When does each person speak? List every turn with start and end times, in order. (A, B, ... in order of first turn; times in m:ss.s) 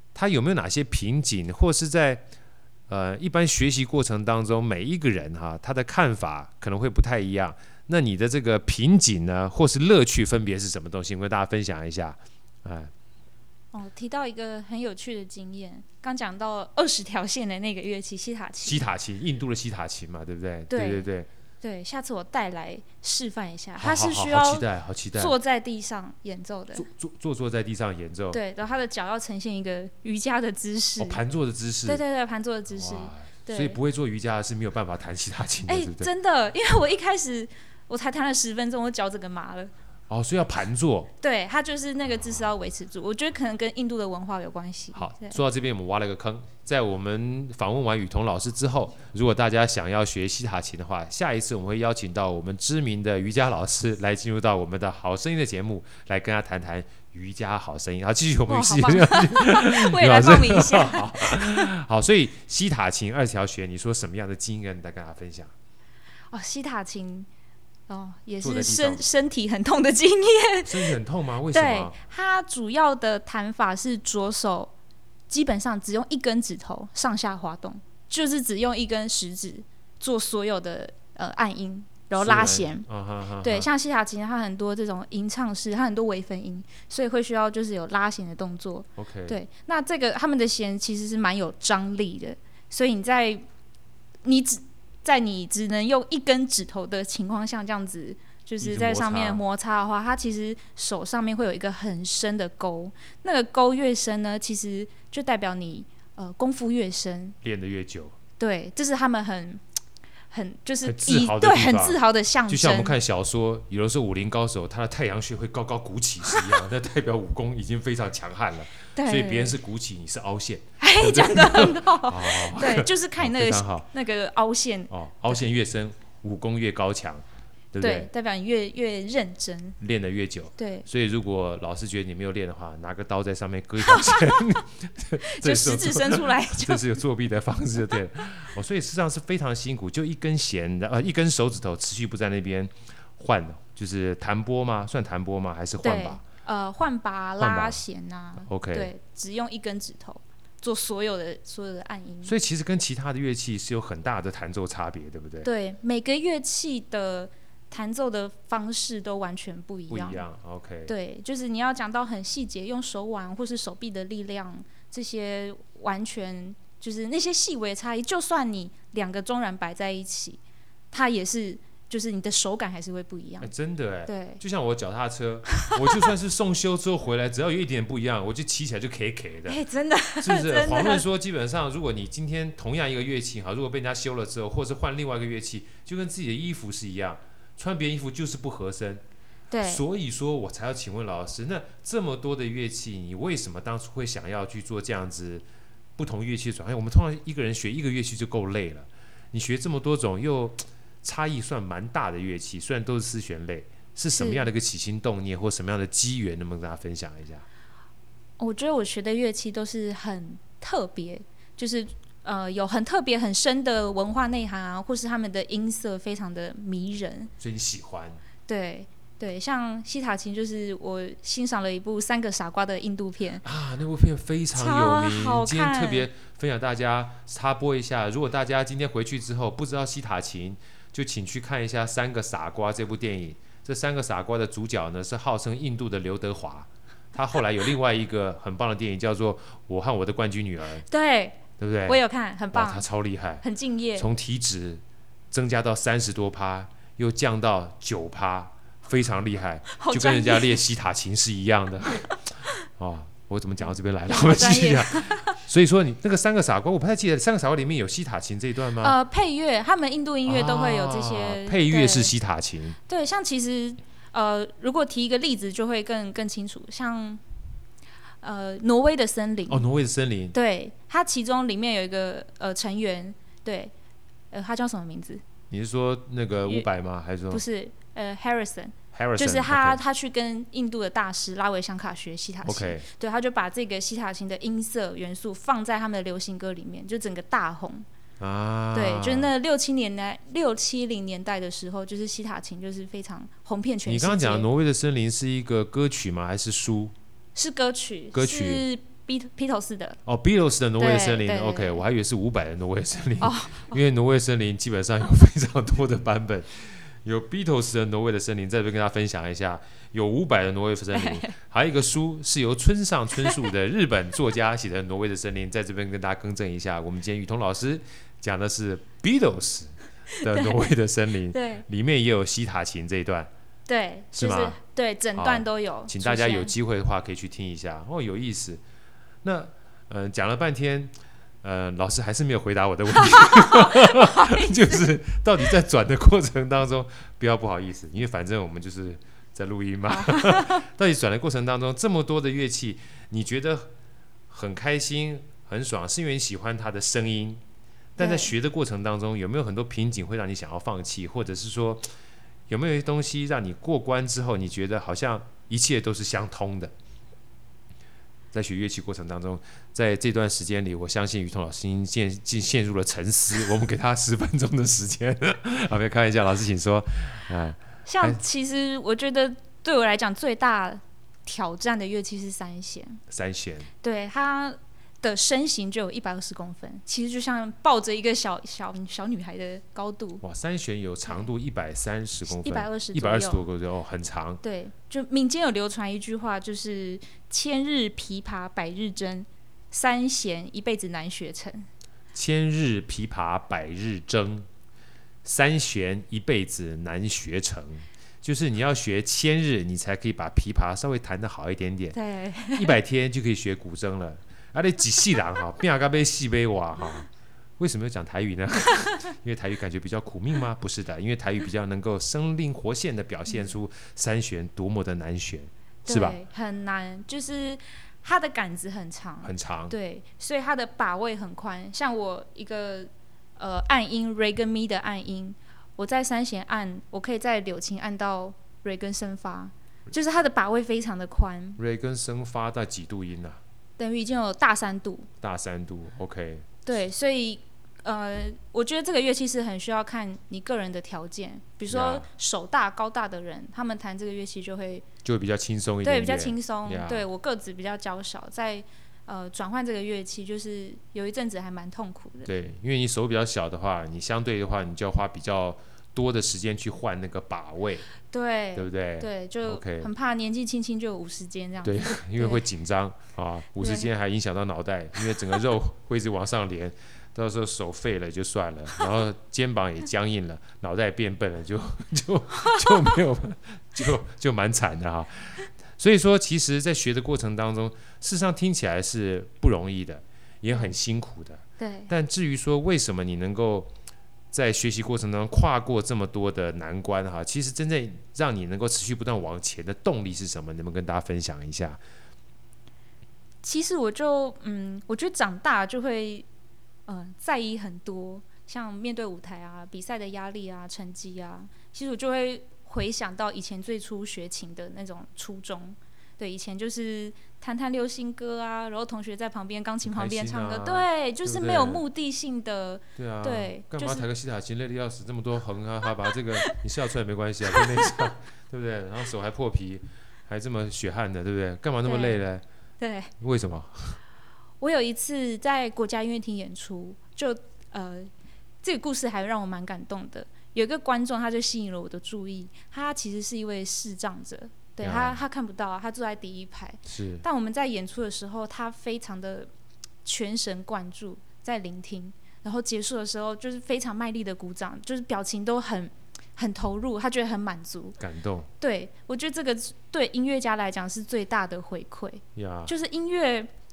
0:00.2-0:02.2 A
0:02.9-0:12.9 A
0:13.7-0:18.8 B
0:18.6-0:21.3 A
0:20.7-0:21.1 B
0:21.6-0:26.9 B
0:23.8-0:25.4 A
0:26.7-0:28.4 A
0:28.3-0:31.2 B
0:31.0-0:32.0 A
0:31.9-0:33.8 B
0:32.7-0:36.1 A
0:35.7-0:39.7 B
0:40.1-0:41.1 A
0:41.2-0:45.4 B
0:44.9-1:05.5 A
0:58.5-1:01.6 B
1:06.3-1:07.3 B
1:07.9-1:10.9 B
1:08.4-1:09.1 A
1:10.6-1:12.0 A
1:11.5-1:14.7 B
1:15.3-1:22.9 B
1:22.2-1:23.7 A
1:23.4-1:33.4 B
1:29.0-1:29.4 A
1:34.2-1:47.4 B
1:38.6-1:39.4 A
1:47.4-1:48.2 A
1:48.4-1:49.6 B
1:50.3-1:53.0 B
1:50.8-2:03.9 A
1:59.0-1:59.5 B
2:00.8-2:04.9 B
2:04.9-2:08.1 A
2:07.8-2:09.8 B
2:09.8-2:26.2 A
2:10.6-2:10.9 B
2:13.8-2:14.4 B
2:15.2-2:16.9 B
2:25.8-2:32.4 B
2:27.4-2:27.8 A
2:28.4-2:28.9 A
2:32.2-2:35.5 A
2:35.4-2:40.2 B
2:39.9-2:40.9 A
2:40.9-2:50.4 B
2:50.9-2:53.5 B
2:53.4-2:59.6 A
2:54.1-2:54.4 B
2:59.5-3:01.1 B
3:00.2-3:09.0 A
3:09.5-3:09.8 B
3:09.6-3:15.4 A
3:16.0-3:27.5 A
3:24.1-3:24.5 B
3:28.4-3:37.3 B
3:37.4-3:38.2 A
3:38.5-3:43.4 B
3:43.4-4:00.8 A
3:44.6-3:46.1 B
4:00.9-4:02.8 B
4:01.6-4:02.0 A
4:02.5-4:19.0 A
4:03.4-4:04.1 B
4:09.8-4:10.6 B
4:14.1-4:15.4 B
4:18.8-4:22.1 B
4:20.2-4:22.8 A
4:22.9-4:27.2 B
4:28.2-4:29.6 B
4:29.5-4:30.4 A
4:30.3-4:33.7 B
4:34.3-4:35.2 B
4:35.5-4:37.4 A
4:37.3-4:47.9 B
4:38.9-4:39.8 A
4:42.4-4:42.9 A
4:48.2-4:49.3 A
4:48.7-4:54.5 B
4:53.9-4:56.9 A
4:57.4-5:00.0 B
4:58.1-4:58.6 A
5:00.1-5:23.3 A
5:00.8-5:01.8 B
5:03.2-5:03.8 B
5:10.9-5:11.3 B
5:20.2-5:20.6 B
5:21.3-5:21.6 B
5:23.7-5:26.5 B
5:24.2-5:24.6 A
5:25.2-5:28.6 A
5:29.2-5:43.7 A
5:33.2-5:34.6 B
5:40.0-5:40.5 B
5:44.3-5:47.4 A
5:48.0-5:51.9 A
5:48.0-5:48.3 B
5:52.5-5:56.7 A
5:58.3-6:08.2 A
6:07.9-6:13.0 B
6:13.1-6:13.7 A
6:13.8-6:20.2 B
6:20.2-6:24.4 A
6:22.3-6:23.4 B
6:24.4-6:31.7 B
6:32.1-6:34.5 A
6:35.2-6:42.0 A
6:41.9-6:42.8 B
6:42.5-6:47.1 A
6:47.6-6:56.2 A
6:55.8-7:11.6 B
6:59.2-6:59.8 A
7:11.6-7:13.4 A
7:13.8-7:15.1 B
7:15.2-7:16.5 A
7:16.7-7:24.8 B
7:21.7-7:22.1 A
7:25.0-7:27.1 A
7:25.8-7:32.3 B
7:32.2-7:37.9 A
7:38.1-7:42.4 B
7:38.6-7:39.9 A
7:41.6-8:03.7 A
7:43.6-7:43.9 B
7:52.5-7:52.8 B
8:01.6-8:01.9 B
8:04.3-8:11.8 A
8:13.4-8:16.3 B
8:16.9-8:34.1 B
8:29.8-8:31.8 A
8:33.0-8:42.4 A
8:41.8-8:42.2 B
8:42.8-8:43.1 B
8:43.2-8:44.0 A
8:44.6-8:48.1 B
8:48.6-8:59.5 B
8:54.8-8:55.2 A
8:56.9-8:57.2 A
9:00.0-9:08.0 B
9:08.0-9:08.5 A
9:08.6-9:13.5 B
9:12.4-9:12.7 A